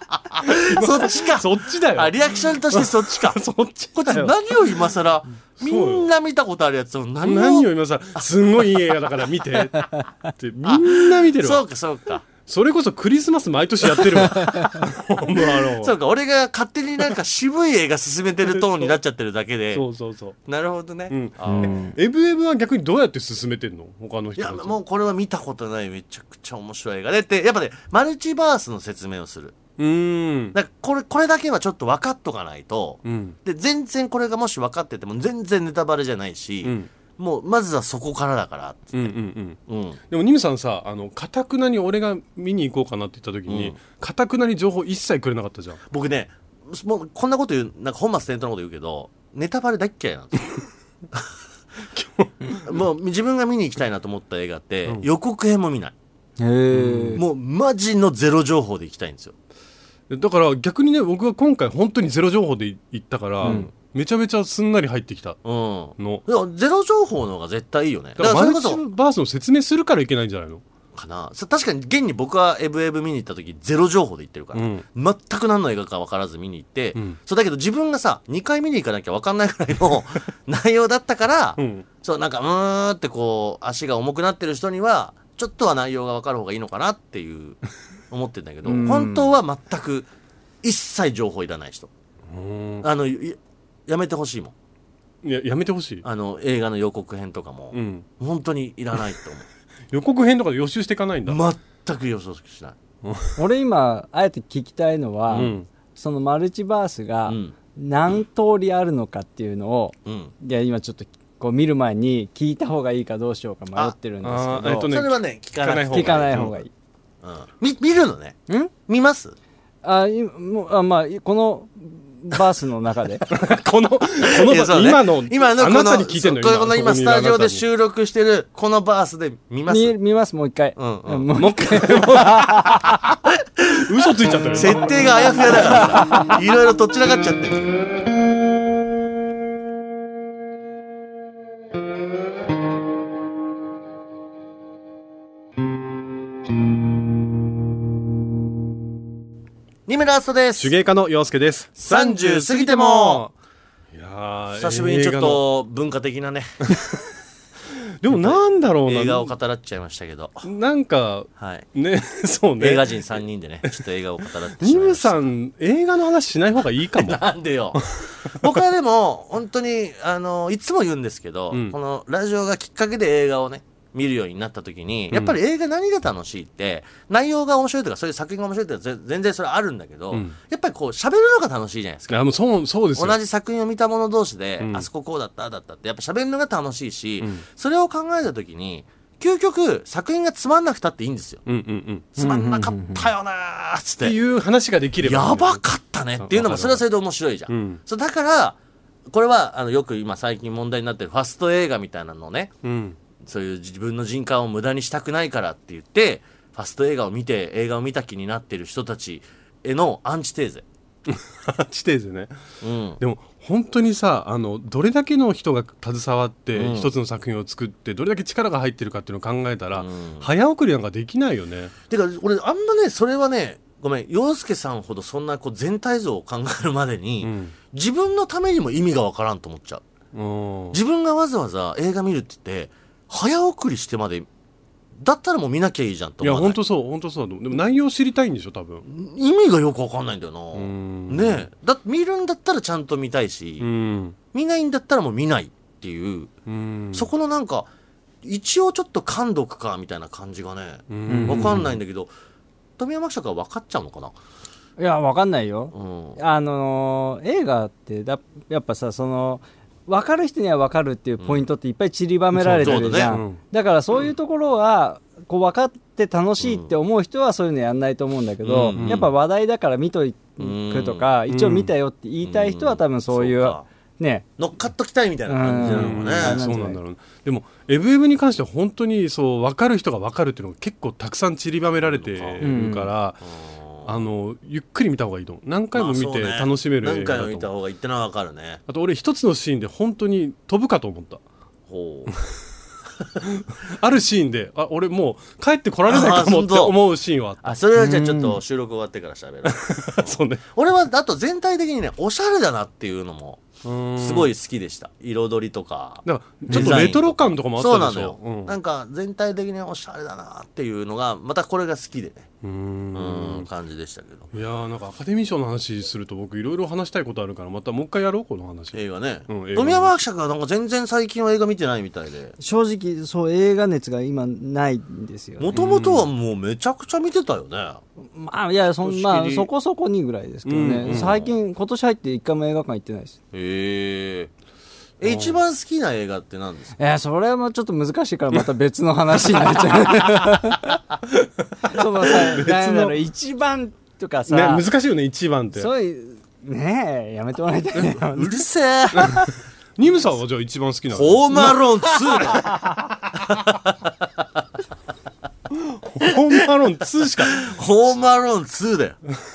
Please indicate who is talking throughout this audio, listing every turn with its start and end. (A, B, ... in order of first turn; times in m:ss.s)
0:00.2-0:03.4 A
0:00.4-0:04.9 B
0:04.0-0:07.7 A
0:05.5-0:06.1 B
0:07.2-0:11.6 B
0:10.6-0:12.2 A
0:12.4-0:15.9 B
0:14.0-0:14.3 A
0:14.4-0:14.7 C
0:15.3-0:19.8 A
0:18.5-0:19.0 B
0:19.7-0:20.4 B
0:20.5-0:21.8 A
0:21.1-0:24.8 B
0:21.4-0:22.0 C
0:24.4-0:29.6 A
0:29.8-0:30.6 B
0:30.5-0:39.1 A
0:33.0-0:33.4 B
0:36.6-0:36.9 B
0:38.9-0:45.8 B
0:39.7-0:40.0 A
0:43.5-0:43.8 A
0:45.9-0:50.6 A
0:52.0-0:52.6 B
0:52.6-0:56.0 A
0:56.4-0:57.2 C
0:56.7-0:57.2 B
0:57.2-0:59.3 A
1:00.1-1:05.4 B
1:03.4-1:03.7 A
1:03.4-1:03.7 C
1:05.4-1:08.8 A
1:06.0-1:06.2 B
1:08.2-1:10.6 B
1:11.0-1:27.6 A
1:14.5-1:14.8 B
1:21.6-1:21.8 B
1:28.1-1:30.1 A
1:28.6-1:29.3 C
1:30.6-1:31.9 A
1:32.3-1:32.9 B
1:32.8-1:34.5 A
1:35.2-1:36.0 B
1:36.0-1:39.5 A
1:37.7-1:38.0 B
1:39.9-1:41.4 B
1:41.3-1:42.8 A
1:43.0-1:43.4 B
1:43.4-1:54.9 C
1:45.3-1:45.7 B
1:47.3-1:47.6 A
1:50.0-1:50.3 A
1:54.2-1:56.5 B
1:54.6-1:56.6 A
1:55.9-1:56.7 C
1:57.2-1:59.4 A
1:59.8-2:03.2 C
2:03.3-2:07.6 B
2:04.2-2:10.0 A
2:09.7-2:13.1 C
2:10.8-2:11.3 A
2:11.4-2:12.9 B
2:13.7-2:15.0 B
2:14.5-2:17.8 A
2:15.8-2:16.3 C
2:29.9-2:30.7 A
2:30.6-2:33.3 B
2:31.8-2:33.2 A
2:33.9-2:35.4 B
2:34.6-2:36.6 A
2:38.0-2:39.3 B
2:38.1-2:40.5 A
2:40.4-2:47.2 B
2:41.4-2:41.7 A
2:42.6-2:45.3 A
2:47.0-3:02.3 A
2:47.7-2:48.6 B
2:55.1-2:55.4 B
3:00.1-3:00.4 B
3:02.1-3:03.2 B
3:03.0-3:11.4 A
3:04.6-3:04.9 B
3:11.5-3:12.2 B
3:12.2-3:14.2 A
3:12.2-3:13.1 C
3:14.0-3:15.6 B
3:15.0-3:18.6 A
3:16.2-3:16.8 B
3:17.5-3:17.8 B
3:19.1-3:22.5 A
3:22.6-3:23.0 B
3:23.2-3:30.6 A
3:31.1-3:32.3 B
3:32.6-3:33.0 A
3:33.0-3:41.7 B
3:36.5-3:36.9 A
3:39.7-3:40.3 A
3:41.9-3:49.8 A
3:47.2-3:47.6 B
3:50.1-3:50.8 B
3:50.7-3:54.3 A
3:55.0-3:56.6 A
3:56.2-3:58.9 B
3:58.9-4:03.7 A
4:00.5-4:01.5 B
4:03.6-4:04.2 B
4:04.3-4:06.3 A
4:06.5-4:07.1 B
4:06.9-4:07.7 A
4:08.2-4:12.1 A
4:10.9-4:11.8 B
4:11.1-4:11.7 C
4:12.8-4:14.1 A
4:14.8-4:34.2 C
4:15.7-4:16.2 A
4:22.4-4:23.4 B
4:22.6-4:23.2 A
4:26.4-4:26.7 A
4:28.4-4:29.1 A
4:28.8-4:29.0 B
4:30.4-4:31.1 A
4:31.3-4:31.7 B
4:32.2-4:33.6 A
4:34.4-4:36.4 A
4:35.3-4:36.8 C
4:35.6-4:43.2 B
4:41.8-4:42.5 A
4:42.4-4:42.9 C
4:43.3-4:44.0 A
4:43.8-4:47.5 B
4:45.8-4:48.6 A
4:48.7-4:51.2 B
4:51.7-4:52.1 A
4:53.2-4:57.5 B
4:55.9-4:56.8 A
4:57.4-5:12.3 A
4:57.8-4:58.4 C
4:59.5-5:00.4 B
5:03.6-5:04.3 B
5:06.0-5:08.6 B
5:06.5-5:06.8 C
5:12.4-5:13.5 B
5:12.9-5:14.3 A
5:14.3-5:20.0 B
5:18.7-5:22.4 A
5:22.4-5:25.5 C
5:25.4-5:27.8 A
5:25.5-5:26.1 B
5:28.0-5:33.2 C
5:28.8-5:29.5 A
5:30.5-5:31.2 B
5:30.7-5:31.3 A
5:33.3-5:34.3 A
5:35.0-5:36.8 A
5:35.0-5:35.4 B
5:36.8-5:40.8 C
5:41.2-5:43.0 B
5:41.7-5:44.6 C
5:44.3-5:45.7 B
5:45.6-5:48.4 C
5:47.9-5:49.2 A
5:49.0-5:49.3 C
5:49.8-5:51.6 B
5:50.9-5:54.0 A
5:52.2-5:52.4 B
5:55.9-5:57.5 B
5:56.0-5:56.3 A
5:57.2-5:59.0 A